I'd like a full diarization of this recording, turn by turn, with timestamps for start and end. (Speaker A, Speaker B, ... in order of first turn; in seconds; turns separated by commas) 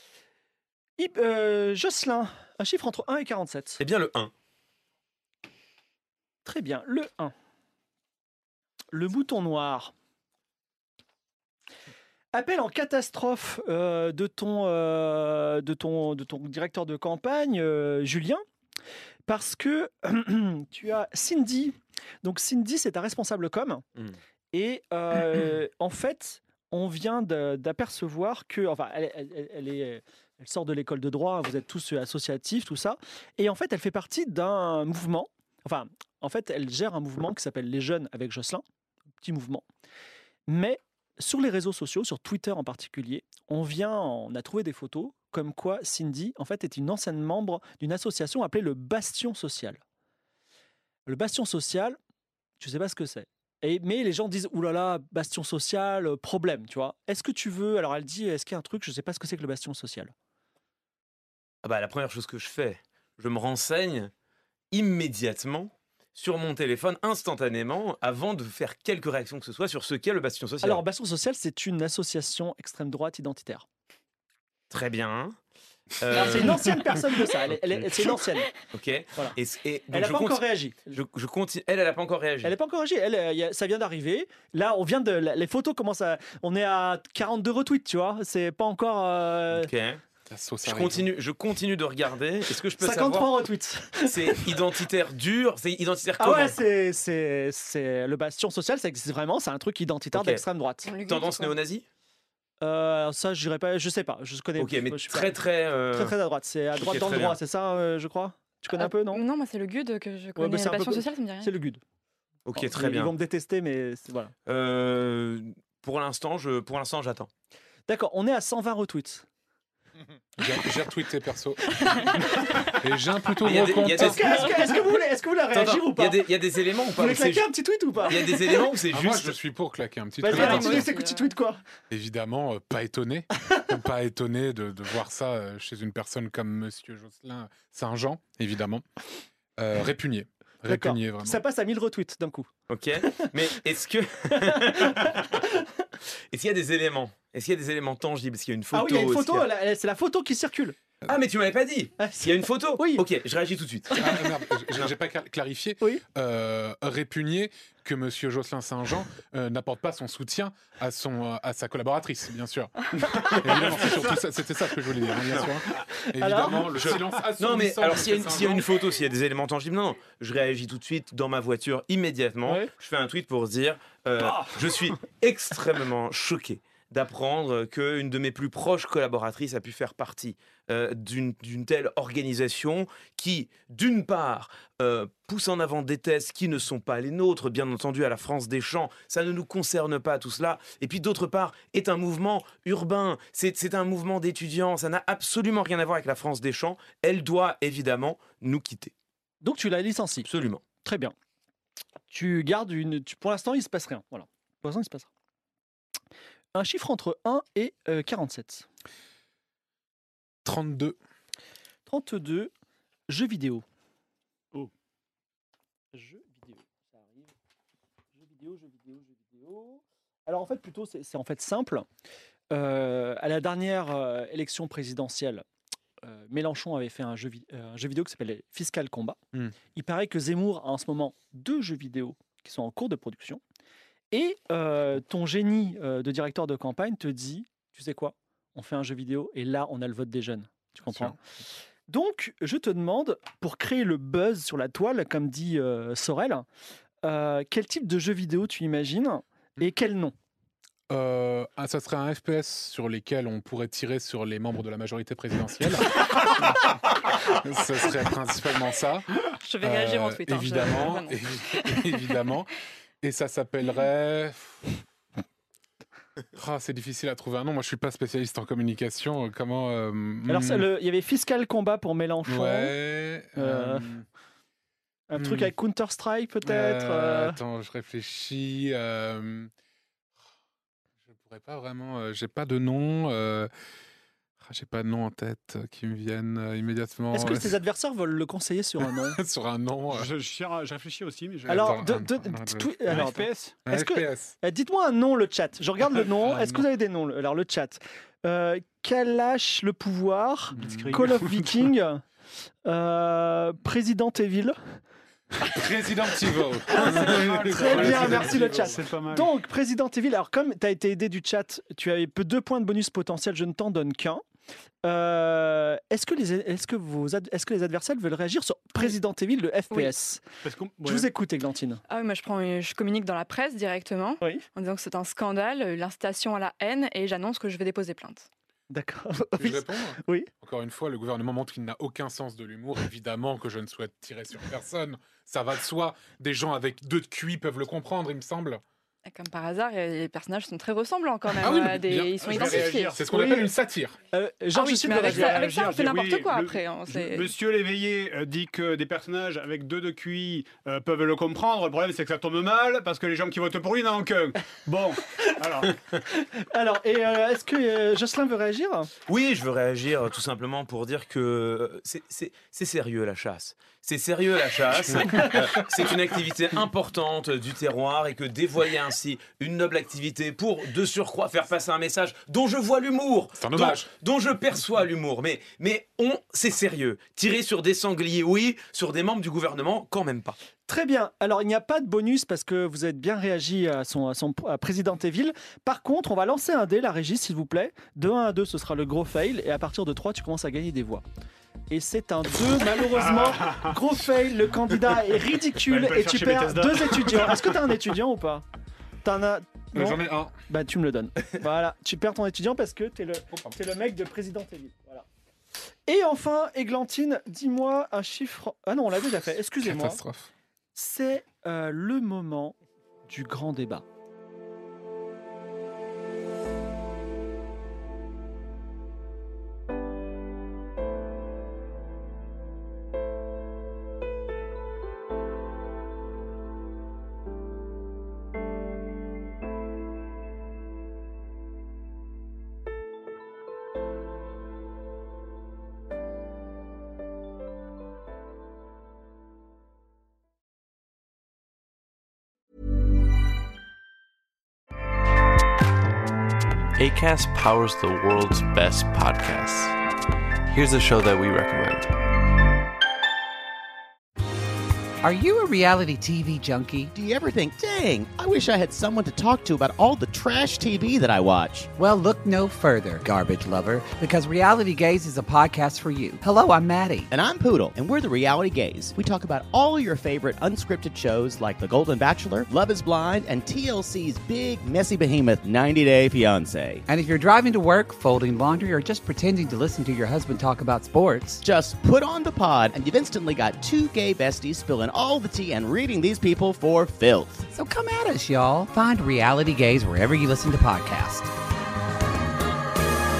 Speaker A: 1.0-3.8, Speaker B: 3.8-4.3, Speaker A: 6.4-7.3, Speaker A: 8.9-9.9, Speaker A: 12.3-18.4, Speaker A: 19.3-23.8, Speaker A: 24.5-38.6, Speaker A: 39.2-39.6, Speaker A: 40.5-49.8, Speaker A: 51.1-52.0, Speaker A: 52.6-60.1, Speaker B: 61.6-64.1, Speaker B: 64.7-70.8, Speaker A: 70.6-73.7, Speaker B: 74.7-75.3, Speaker B: 76.0-76.7, Speaker A: 76.1-78.5, Speaker B: 78.7-82.5, Speaker A: 79.9-81.0, Speaker A: 82.4-89.7, Speaker B: 89.5-90.0, Speaker C: 90.3-91.1, Speaker B: 90.6-93.3, Speaker A: 92.8-94.5, Speaker B: 94.0-96.6, Speaker A: 96.2-100.9, Speaker B: 100.1-100.4, Speaker D: 100.8-101.6, Speaker B: 101.0-101.8, Speaker A: 102.6-105.3, Speaker B: 104.6-106.1, Speaker A: 105.9-109.2, Speaker B: 106.8-107.4, Speaker D: 108.7-111.5, Speaker A: 110.3-111.8, Speaker B: 112.5-113.1, Speaker A: 112.5-114.3, Speaker B: 114.5-117.3, Speaker A: 117.9-119.2, Speaker C: 120.4-124.5, Speaker B: 123.4-124.8, Speaker A: 123.8-126.2, Speaker B: 125.5-127.5, Speaker A: 127.0-128.7, Speaker B: 128.1-129.3, Speaker C: 128.9-130.9, Speaker A: 130.2-131.6, Speaker D: 130.2-131.3, Speaker C: 131.9-138.9, Speaker C: 139.6-141.4, Speaker A: 140.7-142.5, Speaker B: 142.7-145.5, Speaker A: 144.3-145.6, Speaker B: 146.3-149.5, Speaker A: 148.7-150.8, Speaker B: 151.1-154.2, Speaker A: 152.0-153.0, Speaker C: 153.9-168.7, Speaker A: 166.1-166.9, Speaker B: 166.8-198.9, Speaker A: 172.4-172.7, Speaker A: 174.2-174.5, Speaker A: 199.4-200.3, Speaker B: 200.2-200.6, Speaker A: 200.8-201.1, Speaker A: 202.1-205.1, Speaker A: 206.5-208.7, Speaker C: 210.4-211.0, Speaker A: 211.9-212.5, Speaker A: 213.1-213.6, Speaker A: 215.9-217.3, Speaker A: 218.2-221.8, Speaker A: 222.5-225.4, Speaker A: 226.0-229.2, Speaker A: 229.7-233.4, Speaker A: 234.1-241.2, Speaker C: 240.8-241.2, Speaker A: 241.9-246.4, Speaker A: 247.0-250.1, Speaker C: 250.9-264.8, Speaker D: 259.4-261.9, Speaker C: 266.3-270.6, Speaker A: 270.3-272.7, Speaker C: 272.2-274.0, Speaker A: 273.4-273.9, Speaker A: 275.1-277.4, Speaker C: 275.2-275.5, Speaker C: 276.4-279.5, Speaker C: 281.1-283.5, Speaker C: 284.4-287.6, Speaker A: 287.1-289.2, Speaker C: 288.8-290.1, Speaker E: 289.9-291.8, Speaker C: 291.4-293.1, Speaker A: 291.5-302.0, Speaker E: 292.9-293.6, Speaker C: 293.6-294.4, Speaker C: 296.2-296.6, Speaker E: 300.5-301.7, Speaker C: 300.6-301.0, Speaker A: 302.6-304.6, Speaker C: 305.5-308.8, Speaker A: 306.7-314.2, Speaker E: 306.8-309.3, Speaker A: 314.8-320.2, Speaker E: 320.4-321.1, Speaker A: 320.8-321.8, Speaker D: 321.9-328.3, Speaker A: 328.7-330.3, Speaker C: 329.4-338.6, Speaker D: 339.1-343.0, Speaker C: 341.3-344.0, Speaker E: 342.2-343.0, Speaker A: 343.1-343.5, Speaker A: 344.1-345.4, Speaker D: 344.5-347.3, Speaker E: 344.9-355.8, Speaker A: 356.1-358.9, Speaker B: 359.1-380.4, Speaker C: 373.4-373.9, Speaker A: 380.7-391.0, Speaker A: 391.7-398.4, Speaker E: 392.9-393.8, Speaker E: 395.6-397.6, Speaker A: 399.0-405.1, Speaker C: 399.7-400.3, Speaker A: 405.9-410.0, Speaker C: 409.6-410.3, Speaker A: 410.8-412.6, Speaker A: 413.1-413.8, Speaker F: 446.8-449.7, Speaker F: 450.5-451.9, Speaker G: 455.0-456.9, Speaker H: 456.9-461.7, Speaker G: 461.8-467.1, Speaker H: 467.1-476.8, Speaker G: 476.9-481.4, Speaker H: 481.4-487.5, Speaker G: 487.5-491.3